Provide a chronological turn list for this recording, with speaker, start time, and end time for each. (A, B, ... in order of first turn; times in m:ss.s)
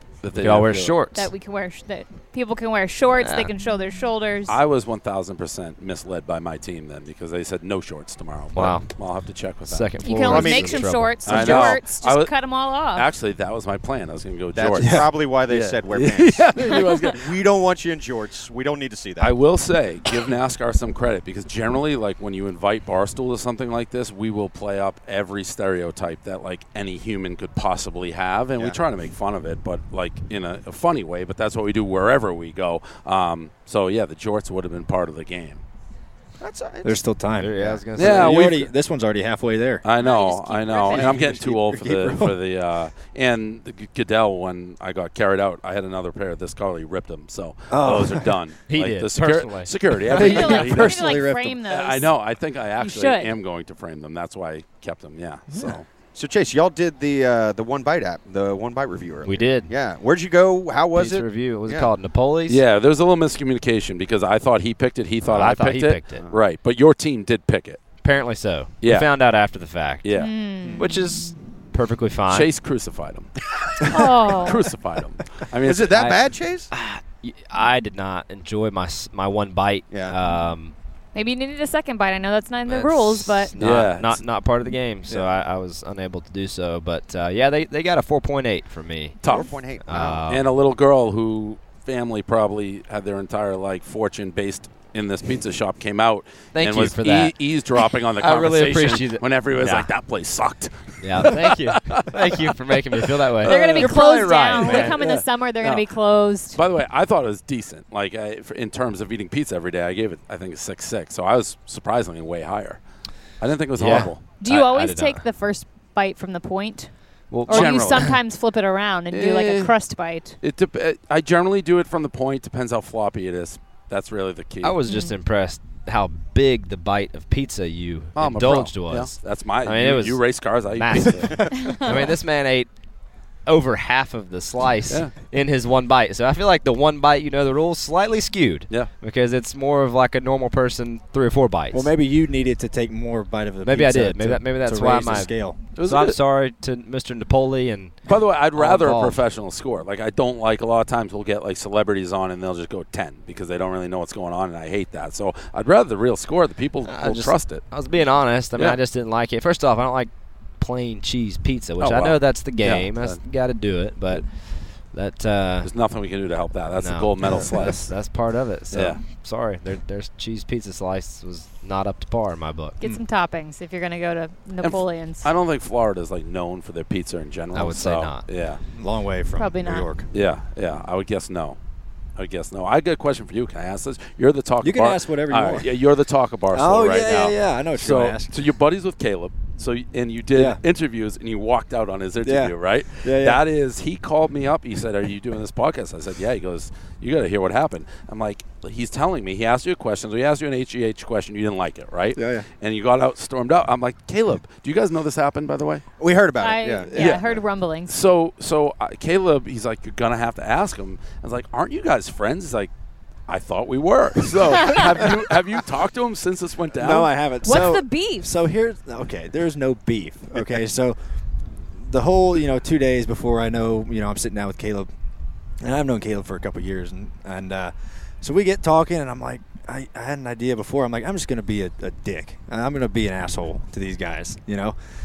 0:00.2-0:01.0 A
0:00.3-0:01.3 B
0:01.1-0:04.6 C
0:03.1-0:03.5 B
0:04.5-0:09.9 A
0:08.5-0:08.9 B
0:09.6-0:11.7 B
0:10.0-0:13.1 C
0:10.2-0:10.8 D
0:11.2-0:17.4 A
0:14.5-0:19.3 D
0:14.8-0:15.1 E
0:16.8-0:17.1 C
0:19.2-0:35.6 A
0:36.4-0:37.0 D
0:36.8-0:39.8 E
0:37.4-0:38.6 B
0:38.0-0:38.7 A
0:39.8-0:55.8 A
0:40.0-0:41.1 C
0:40.7-0:41.4 D
0:41.0-0:42.4 E
0:47.7-0:48.4 E
0:48.7-0:50.2 B
0:50.1-0:51.6 E
0:50.1-0:52.1 C
0:52.8-0:53.3 C
0:55.5-0:55.8 E
0:56.1-1:01.9 D
0:59.2-0:59.7 B
1:00.9-1:02.6 B
1:02.5-1:07.8 A
1:05.3-1:06.2 B
1:08.0-1:10.1 B
1:08.8-1:09.1 A
1:10.0-1:10.3 A
1:10.1-1:11.3 C
1:10.7-1:12.5 B
1:12.3-1:13.3 A
1:13.9-1:16.2 A
1:13.9-1:14.7 C
1:15.6-1:16.7 D
1:16.7-1:20.7 B
1:19.9-1:20.2 D
1:21.1-1:23.6 C
1:22.6-1:29.2 B
1:23.6-1:24.2 A
1:29.2-1:29.6 A
1:29.2-1:30.2 D
1:29.8-1:30.5 B
1:30.3-1:44.0 A
1:36.5-1:37.4 B
1:38.2-1:39.9 B
1:41.0-1:45.0 B
1:43.4-1:46.6 C
1:44.6-1:45.9 A
1:46.5-1:52.8 A
1:53.4-1:54.2 A
1:53.7-1:55.2 B
1:54.4-1:56.9 C
1:57.3-1:58.2 B
1:57.4-2:00.4 C
1:57.5-1:58.2 A
1:59.1-1:59.7 A
2:00.4-2:04.8 A
2:04.6-2:12.7 B
2:04.8-2:05.1 C
2:08.2-2:12.0 A
2:11.6-2:11.9 C
2:13.4-2:21.9 B
2:21.7-2:25.6 E
2:23.6-2:29.2 B
2:25.8-2:26.2 A
2:28.0-2:37.6 A
2:36.8-2:45.7 B
2:41.8-2:43.2 A
2:45.6-2:47.9 A
2:46.8-2:52.8 B
2:48.7-2:49.0 A
2:52.8-2:55.3 C
2:54.6-2:58.6 A
2:57.5-2:58.2 B
2:58.8-3:00.0 E
2:59.4-2:59.9 C
3:00.1-3:01.6 A
3:02.2-3:25.8 A
3:04.6-3:05.7 E
3:06.5-3:08.3 E
3:10.3-3:10.6 E
3:12.2-3:13.4 E
3:22.1-3:22.5 E
3:26.0-3:27.1 D
3:26.4-3:27.9 C
3:26.9-3:27.2 E
3:26.9-3:27.2 A
3:27.9-3:32.7 A
3:33.3-3:37.1 A
3:36.7-3:41.0 E
3:37.4-3:38.3 C
3:41.7-3:44.9 E
3:45.6-3:54.8 E